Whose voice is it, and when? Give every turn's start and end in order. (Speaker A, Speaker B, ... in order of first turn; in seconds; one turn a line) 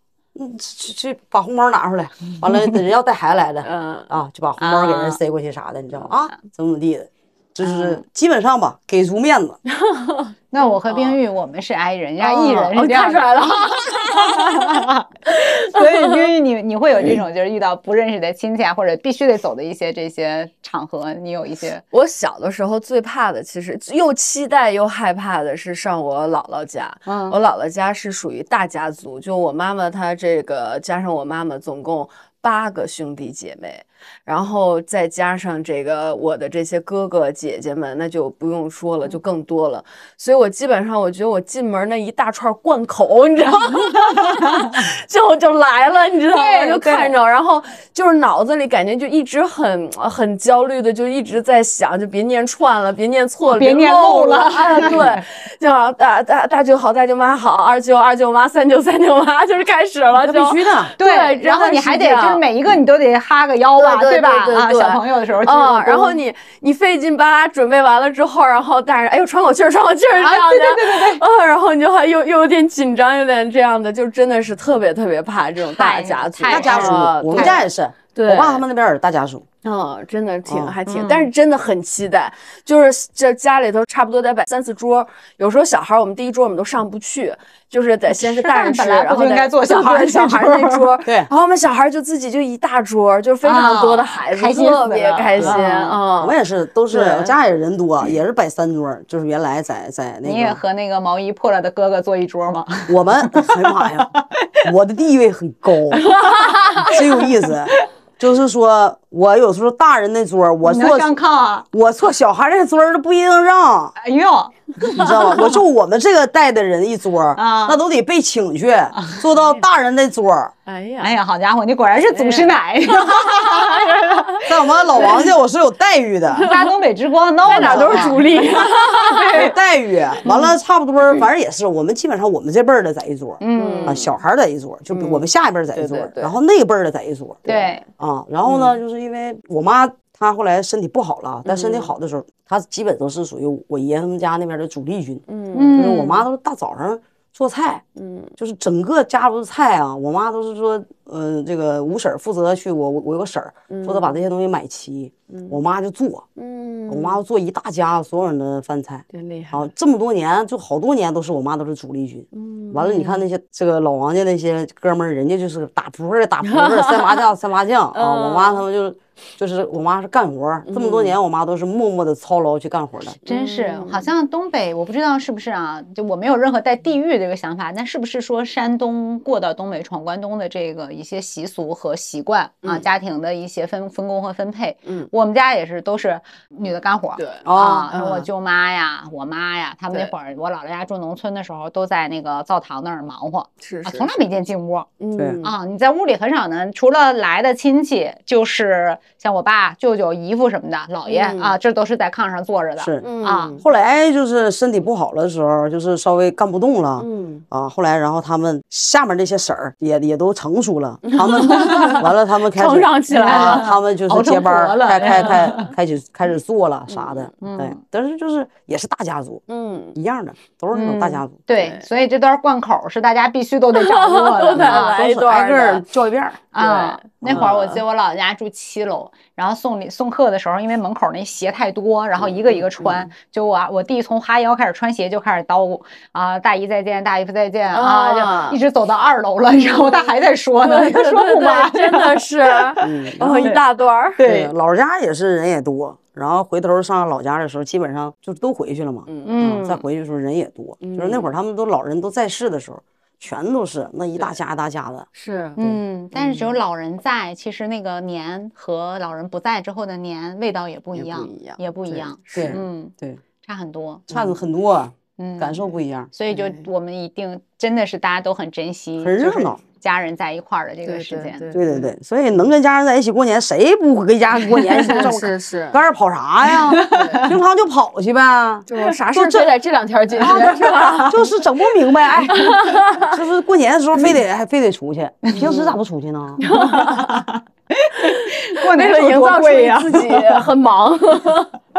Speaker A: 0.3-9.6
Speaker B: 3.6-4.1
Speaker C: 4.6-5.2
Speaker B: 9.7-10.3
Speaker C: 10.5-21.8
Speaker B: 10.8-11.2
Speaker B: 12.2-14.8
Speaker B: 15.3-16.3
Speaker B: 21.9-62.4
Speaker C: 27.1-27.4
Speaker C: 44.1-44.8
Speaker C: 46.3-47.1
Speaker C: 53.5-55.2
Speaker A: 60.2-60.9
Speaker C: 61.0-66.2
Speaker B: 63.8-78.6
Speaker C: 70.2-71.2
Speaker C: 75.7-77.6
Speaker A: 76.5-79.5
Speaker B: 79.6-96.3
Speaker A: 80.5-80.7
Speaker C: 80.9-81.3
Speaker C: 88.1-90.9
Speaker A: 91.0-91.3
Speaker C: 93.4-96.0
Speaker A: 96.2-100.6
Speaker B: 96.9-97.3
Speaker C: 100.2-104.6
Speaker A: 102.9-104.1
Speaker A: 104.6-106.1
Speaker C: 106.2-106.9
Speaker B: 106.2-106.7
Speaker A: 106.8-111.1
Speaker C: 110.6-111.7
Speaker A: 111.7-113.9
Speaker C: 114.0-115.3
Speaker A: 114.9-120.5
Speaker C: 117.3-117.8
Speaker B: 119.3-119.6
Speaker B: 120.7-121.2
Speaker C: 121.0-124.5
Speaker B: 122.0-124.2
Speaker A: 124.5-126.5
Speaker B: 124.9-125.3
Speaker B: 126.3-126.7
Speaker C: 126.4-129.5
Speaker B: 127.5-129.5
Speaker A: 127.5-128.2
Speaker A: 129.3-137.4
Speaker C: 133.4-134.0
Speaker B: 133.6-134.1
Speaker B: 134.9-136.4
Speaker B: 137.4-137.8
Speaker C: 137.4-137.8
Speaker A: 138.0-147.8
Speaker B: 138.4-138.8
Speaker B: 141.4-141.9
Speaker B: 145.3-146.0
Speaker C: 145.5-146.2
Speaker B: 147.9-148.3
Speaker A: 148.4-156.2
Speaker B: 153.7-154.2
Speaker B: 155.3-155.6
Speaker B: 156.3-157.2
Speaker A: 156.9-173.2
Speaker B: 159.1-159.7
Speaker B: 162.3-163.2
Speaker B: 166.4-167.3
Speaker B: 167.9-168.6
Speaker B: 170.7-171.2
Speaker B: 173.2-174.1
Speaker C: 173.3-194.9
Speaker B: 184.8-185.1
Speaker B: 187.2-188.3
Speaker A: 187.4-187.9
Speaker B: 193.6-194.1
Speaker B: 195.0-195.5
Speaker A: 195.2-195.4
Speaker C: 195.4-203.6
Speaker B: 201.1-201.6
Speaker A: 202.8-219.4
Speaker B: 203.0-203.6
Speaker B: 207.0-207.4
Speaker B: 211.0-213.7
Speaker C: 211.5-212.0
Speaker C: 213.1-215.7
Speaker B: 216.9-217.3
Speaker C: 217.4-217.8
Speaker B: 219.5-219.9
Speaker A: 219.9-221.3
Speaker C: 220.7-225.0
Speaker B: 221.5-221.8
Speaker B: 223.7-225.8
Speaker A: 224.5-226.4
Speaker C: 226.5-243.6
Speaker B: 226.6-227.8
Speaker A: 227.2-227.5
Speaker B: 232.2-233.1
Speaker B: 237.7-238.6
Speaker B: 239.5-244.2
Speaker A: 242.8-243.5
Speaker C: 244.2-244.5
Speaker A: 244.2-255.1
Speaker B: 249.1-249.8
Speaker C: 249.2-249.7
Speaker B: 250.8-251.3
Speaker B: 255.1-255.6
Speaker C: 255.6-264.0
Speaker B: 256.1-256.6
Speaker B: 260.9-262.6
Speaker A: 262.3-263.2
Speaker A: 264.1-266.1
Speaker C: 265.2-271.5
Speaker B: 266.3-266.7
Speaker A: 269.0-269.6
Speaker B: 270.9-271.9
Speaker A: 271.5-279.5
Speaker B: 274.5-275.8
Speaker C: 274.6-275.1
Speaker C: 276.5-277.3
Speaker B: 276.9-277.3
Speaker B: 278.7-281.3
Speaker A: 280.2-286.4
Speaker C: 280.2-281.2
Speaker B: 282.3-283.2
Speaker C: 282.4-282.8
Speaker B: 285.3-285.8
Speaker B: 286.4-287.2
Speaker C: 286.4-290.4
Speaker B: 288.0-291.5